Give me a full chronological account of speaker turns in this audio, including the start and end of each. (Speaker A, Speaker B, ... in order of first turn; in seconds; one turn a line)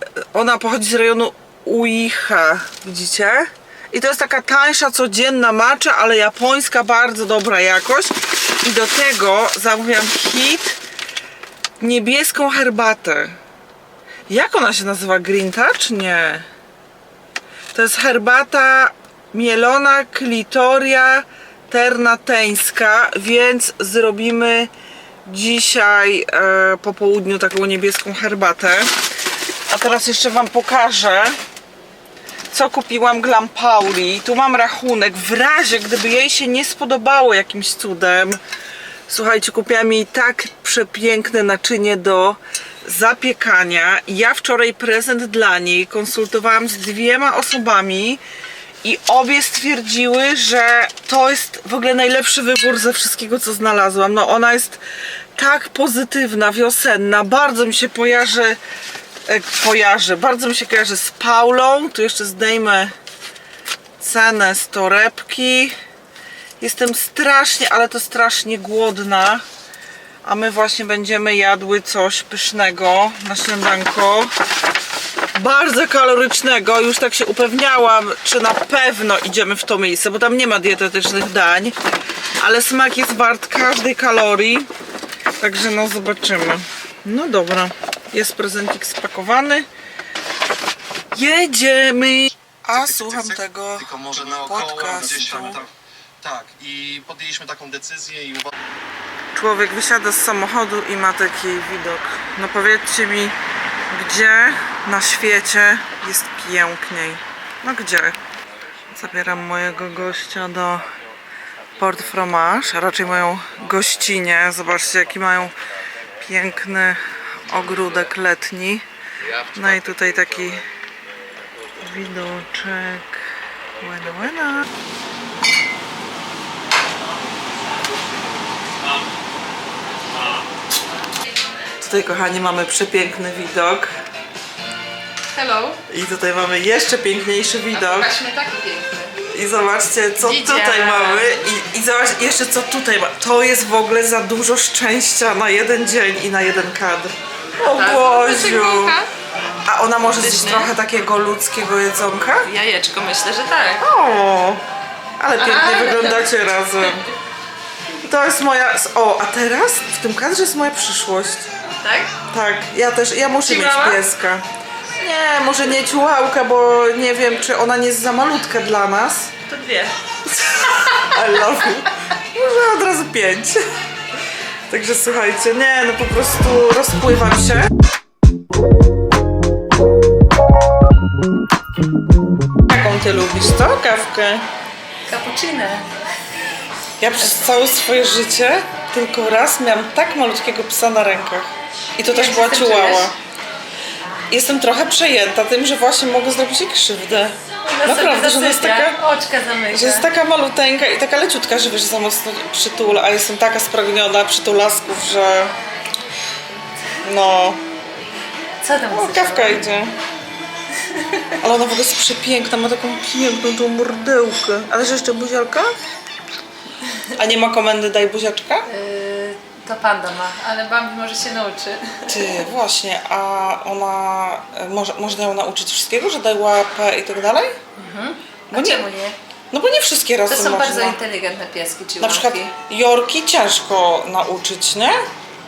Speaker A: 0.2-10.8
Speaker A: 11.8-13.4
Speaker A: 14.3-16.5
Speaker A: 17.7-24.7
Speaker A: 25.2-29.0
Speaker A: 29.7-31.4
Speaker A: 32.5-38.4
Speaker A: 39.1-48.2
Speaker A: 48.8-54.8
Speaker A: 55.4-58.6
Speaker A: 59.2-62.9
Speaker A: 64.0-65.7
Speaker A: 66.6-69.4
Speaker A: 70.2-74.3
Speaker A: 75.3-81.8
Speaker A: 82.4-84.7
Speaker A: 85.4-89.7
Speaker A: 91.1-95.6
Speaker B: 92.7-98.5
Speaker A: 99.3-103.3
Speaker A: 103.9-108.2
Speaker A: 108.9-110.8
Speaker A: 111.8-115.6
Speaker A: 116.2-118.8
Speaker A: 119.5-120.6
Speaker A: 121.8-123.2
Speaker A: 123.8-124.7
Speaker A: 131.8-133.9
Speaker C: 135.3-135.8
Speaker A: 135.9-138.1
Speaker C: 137.7-139.2
Speaker A: 139.2-149.0
Speaker C: 140.2-141.4
Speaker C: 147.7-149.1
Speaker A: 149.6-152.5
Speaker C: 150.2-150.7
Speaker C: 152.4-153.9
Speaker A: 153.8-154.6
Speaker A: 155.2-157.0
Speaker C: 155.4-157.1
Speaker A: 158.1-161.5
Speaker C: 161.8-162.1
Speaker A: 162.3-164.4
Speaker C: 163.4-164.0
Speaker A: 164.9-169.4
Speaker C: 169.5-169.9
Speaker C: 170.5-171.1
Speaker A: 171.0-173.6
Speaker A: 174.7-177.7
Speaker A: 182.7-184.4
Speaker C: 185.1-185.9
Speaker A: 187.0-193.1
Speaker C: 192.1-193.1
Speaker A: 194.3-199.0
Speaker C: 197.6-200.1
Speaker A: 199.7-205.5
Speaker A: 207.0-207.6
Speaker C: 208.6-209.7
Speaker A: 208.9-209.9
Speaker C: 210.8-211.3
Speaker A: 211.4-215.7
Speaker A: 217.1-218.7
Speaker C: 218.7-222.3
Speaker A: 222.1-227.6
Speaker C: 227.8-229.2
Speaker A: 228.5-228.8
Speaker A: 229.5-231.0
Speaker C: 230.3-232.5
Speaker A: 232.0-235.0